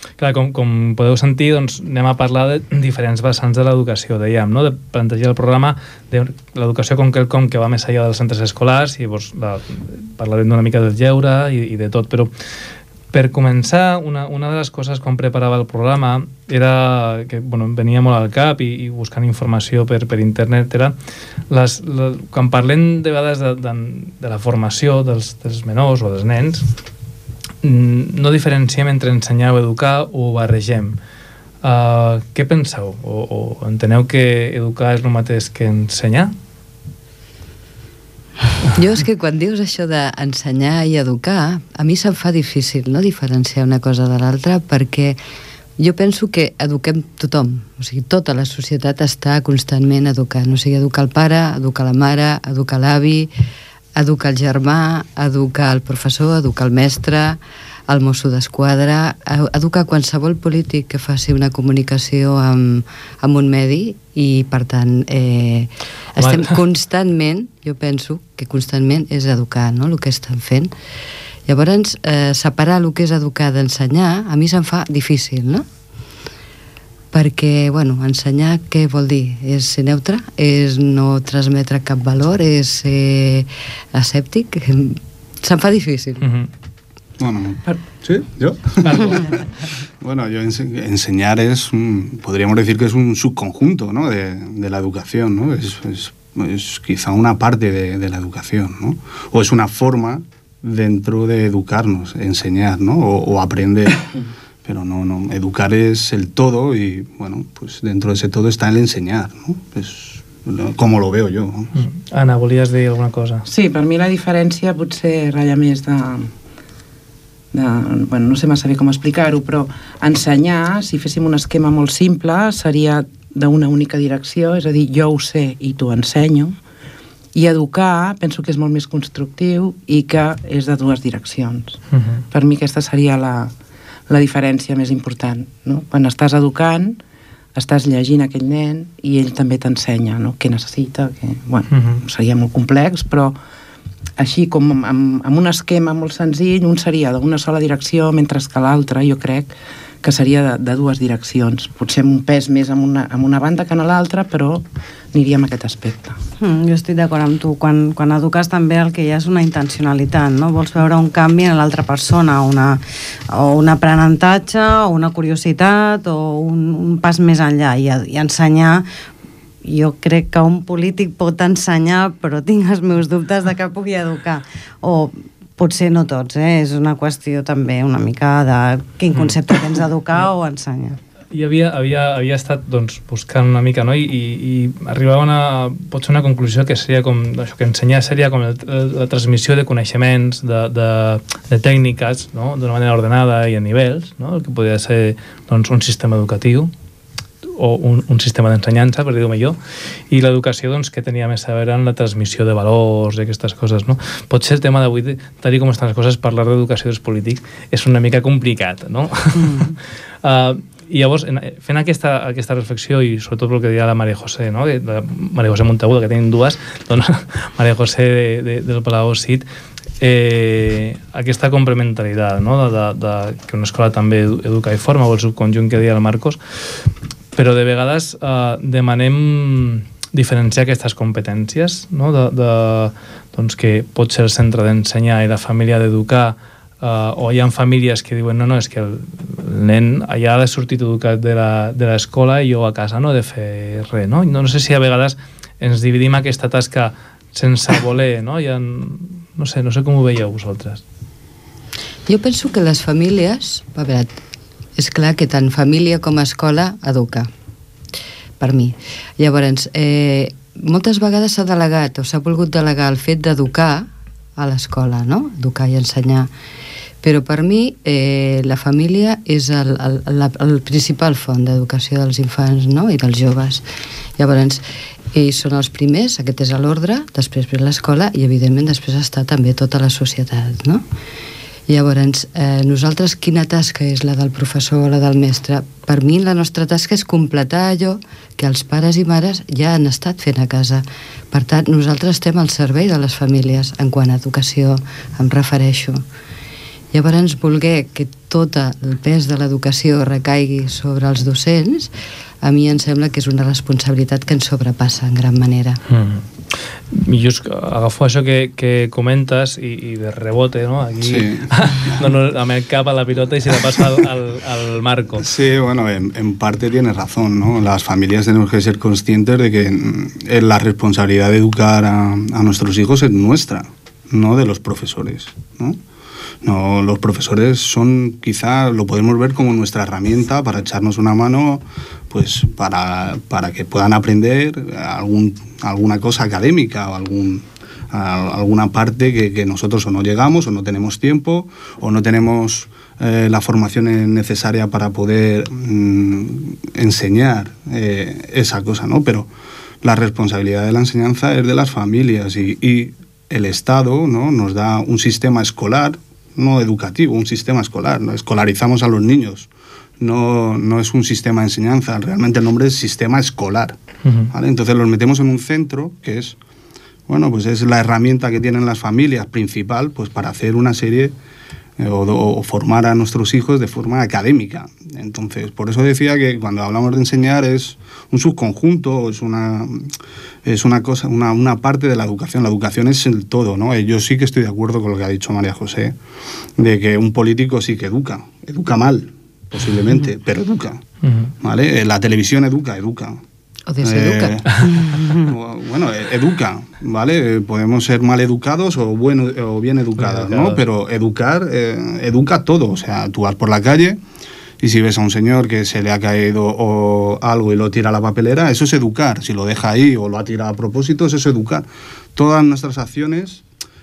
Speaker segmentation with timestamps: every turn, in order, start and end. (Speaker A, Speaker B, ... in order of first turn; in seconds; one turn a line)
Speaker A: 0.2-12.3
Speaker A: 13.1-20.9
Speaker A: 21.5-26.7
Speaker A: 27.6-31.0
Speaker A: 31.6-36.3
Speaker B: 38.7-45.2
Speaker B: 45.8-53.3
Speaker B: 54.0-70.7
Speaker A: 66.2-66.5
Speaker B: 71.5-75.7
Speaker B: 77.1-86.3
Speaker A: 86.2-86.5
Speaker C: 87.2-89.3
Speaker A: 88.8-89.4
Speaker C: 90.0-104.1
Speaker C: 104.6-111.7
Speaker A: 111.8-113.4
Speaker D: 113.5-116.3
Speaker D: 117.5-126.6
Speaker D: 127.3-131.8
Speaker A: 131.9-132.2
Speaker D: 132.3-133.5
Speaker D: 134.1-137.0
Speaker D: 137.6-143.4
Speaker A: 141.7-142.0
Speaker D: 144.2-156.2
Speaker E: 156.4-162.8
Speaker E: 163.3-168.9
Speaker E: 169.6-181.0
Speaker A: 181.3-196.7
Speaker A: 197.6-199.6
Speaker A: 200.1-219.4
Speaker A: 220.0-226.4
Speaker A: 227.3-250.8
Speaker B: 252.1-254.1
Speaker B: 254.8-257.3
Speaker B: 258.4-263.9
Speaker B: 264.4-266.3
Speaker B: 267.0-273.6
Speaker B: 274.2-280.8
Speaker B: 281.7-296.0
Speaker B: 296.9-301.9
Speaker B: 302.4-305.8
Speaker A: 305.9-315.3
Speaker C: 311.0-312.0
Speaker C: 315.2-325.8
Speaker C: 326.4-349.3
Speaker C: 349.8-359.5
Speaker C: 360.0-363.8
Speaker A: 364.1-364.3
Speaker C: 364.3-366.4
Speaker C: 367.1-371.1
Speaker C: 371.8-386.0
Speaker C: 386.6-390.8
Speaker A: 391.0-391.3
Speaker C: 391.4-393.2
Speaker B: 393.7-394.4
Speaker C: 393.8-404.0
Speaker A: 400.0-400.6
Speaker C: 404.6-413.4